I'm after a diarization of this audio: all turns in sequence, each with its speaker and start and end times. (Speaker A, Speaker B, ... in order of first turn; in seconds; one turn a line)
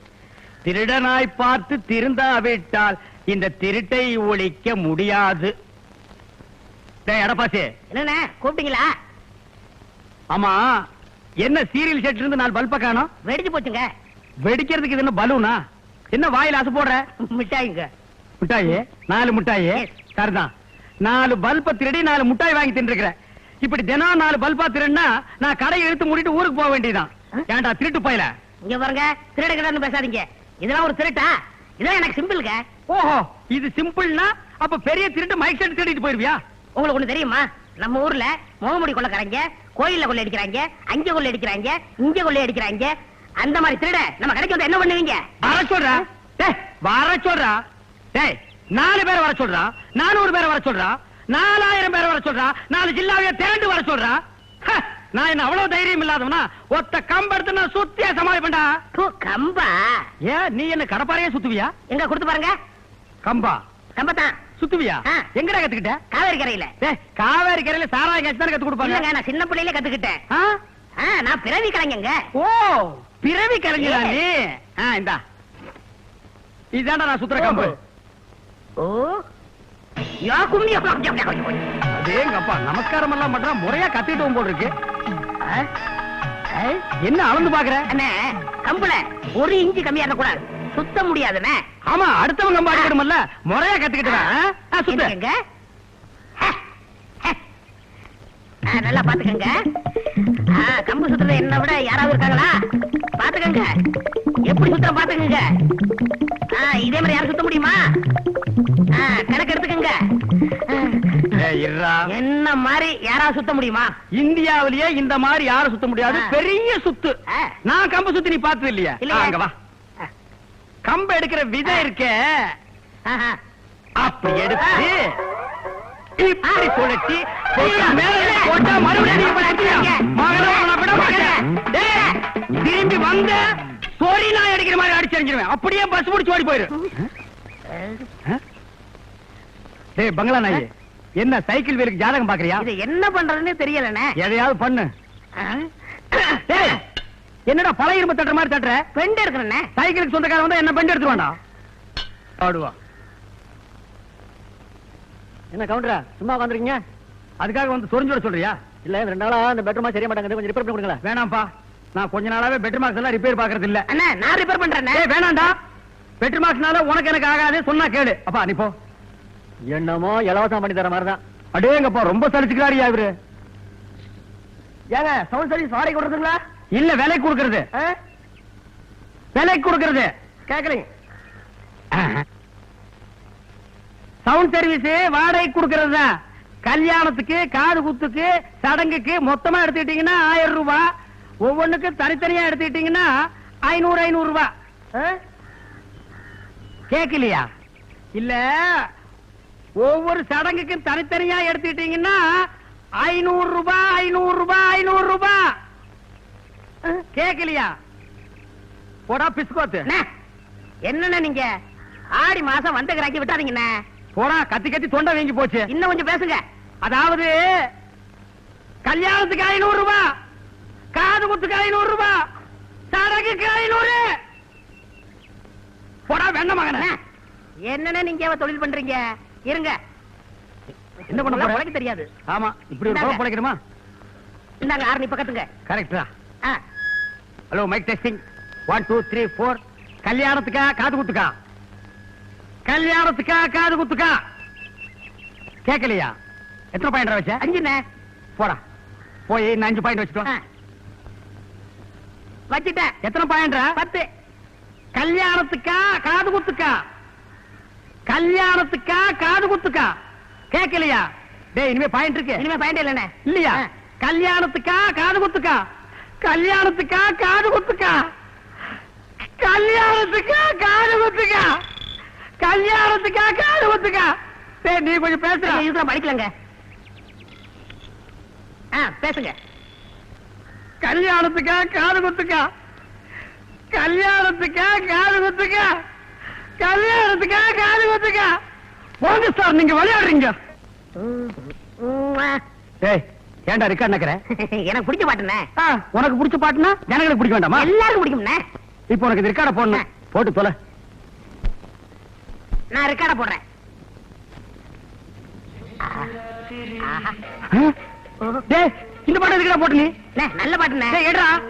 Speaker A: 0.7-5.5
Speaker A: 7.0-7.7
Speaker B: 7.9-8.9
Speaker A: 10.3-10.6
Speaker A: 11.4-13.1
Speaker B: 13.2-13.9
Speaker A: 14.4-15.6
Speaker A: 16.1-17.0
Speaker B: 17.2-17.9
Speaker A: 18.4-20.5
Speaker A: 21.0-28.3
Speaker B: 28.6-32.6
Speaker A: 32.9-36.4
Speaker B: 36.8-45.3
Speaker A: 45.4-47.5
Speaker A: 48.1-58.7
Speaker B: 59.0-59.8
Speaker A: 60.2-61.7
Speaker B: 61.9-62.5
Speaker A: 63.2-63.6
Speaker B: 64.0-64.4
Speaker A: 64.6-66.0
Speaker B: 66.1-66.7
Speaker A: 66.8-69.1
Speaker B: 68.8-70.2
Speaker B: 71.0-72.1
Speaker A: 72.3-75.2
Speaker B: 73.8-74.2
Speaker A: 76.7-77.8
Speaker B: 77.4-77.7
Speaker B: 78.8-79.2
Speaker B: 80.2-81.6
Speaker A: 81.9-84.7
Speaker B: 86.5-86.8
Speaker A: 87.0-87.9
Speaker B: 87.9-91.6
Speaker A: 91.9-95.1
Speaker B: 94.9-95.3
Speaker B: 98.7-99.5
Speaker B: 100.6-102.6
Speaker B: 103.2-103.7
Speaker B: 104.5-105.4
Speaker B: 106.5-107.8
Speaker B: 108.9-109.9
Speaker B: 110.5-111.4
Speaker A: 111.3-112.1
Speaker B: 112.1-113.9
Speaker A: 114.1-117.1
Speaker B: 116.1-116.3
Speaker A: 117.6-119.5
Speaker B: 119.0-119.3
Speaker A: 120.8-122.3
Speaker B: 123.1-123.4
Speaker A: 124.0-125.2
Speaker B: 124.6-124.8
Speaker A: 126.2-131.8
Speaker B: 126.4-126.8
Speaker B: 127.6-132.1
Speaker A: 132.5-133.4
Speaker A: 134.0-137.1
Speaker B: 137.7-138.1
Speaker A: 140.0-140.7
Speaker A: 141.2-142.7
Speaker B: 142.6-144.1
Speaker A: 144.2-144.9
Speaker B: 145.4-146.7
Speaker A: 146.5-146.8
Speaker A: 147.5-148.8
Speaker B: 148.9-149.7
Speaker A: 149.8-151.4
Speaker A: 152.4-152.7
Speaker C: 155.5-156.8
Speaker A: 157.4-158.6
Speaker C: 158.8-161.0
Speaker A: 161.0-163.8
Speaker B: 163.9-165.0
Speaker A: 164.9-165.5
Speaker A: 166.2-168.7
Speaker C: 169.7-171.2
Speaker A: 171.6-173.1
Speaker C: 174.9-176.4
Speaker A: 176.7-177.7
Speaker A: 179.3-180.1
Speaker C: 180.5-180.8
Speaker A: 181.9-182.2
Speaker A: 184.2-186.1
Speaker A: 186.7-190.8
Speaker A: 191.4-193.1
Speaker A: 193.7-194.5
Speaker A: 196.9-197.5
Speaker A: 198.2-198.4
Speaker A: 199.8-202.2
Speaker A: 203.0-205.4
Speaker A: 207.1-207.7
Speaker A: 209.1-209.9
Speaker B: 210.9-211.5
Speaker B: 212.2-213.7
Speaker A: 214.2-215.7
Speaker B: 215.7-216.4
Speaker A: 216.8-217.3
Speaker A: 218.8-220.1
Speaker A: 220.9-222.2
Speaker A: 222.9-224.1
Speaker A: 226.1-226.9
Speaker B: 227.7-229.8
Speaker B: 231.1-232.1
Speaker A: 231.1-231.6
Speaker A: 232.3-233.6
Speaker B: 232.8-233.2
Speaker B: 234.6-235.5
Speaker A: 235.7-236.1
Speaker A: 237.5-241.3
Speaker A: 242.7-244.2
Speaker A: 245.7-246.1
Speaker A: 246.7-247.4
Speaker B: 247.4-247.8
Speaker A: 249.3-250.3
Speaker B: 252.5-252.9
Speaker A: 253.0-253.8
Speaker B: 253.8-254.1
Speaker A: 254.9-256.7
Speaker A: 258.1-259.9
Speaker A: 260.5-262.4
Speaker B: 262.4-263.7
Speaker A: 263.2-265.6
Speaker A: 266.2-268.0
Speaker A: 269.4-271.5
Speaker A: 272.4-274.1
Speaker A: 274.6-275.6
Speaker B: 275.4-276.3
Speaker B: 278.8-279.4
Speaker A: 280.8-282.4
Speaker A: 283.7-285.7
Speaker A: 286.6-288.3
Speaker A: 289.0-290.3
Speaker B: 291.0-292.4
Speaker A: 292.8-294.2
Speaker B: 294.4-295.4
Speaker A: 295.6-297.7
Speaker B: 297.6-298.4
Speaker A: 298.9-300.5
Speaker B: 302.7-303.4
Speaker B: 305.8-306.1
Speaker B: 306.8-307.2
Speaker A: 308.5-309.9
Speaker B: 310.2-311.0
Speaker A: 310.9-311.4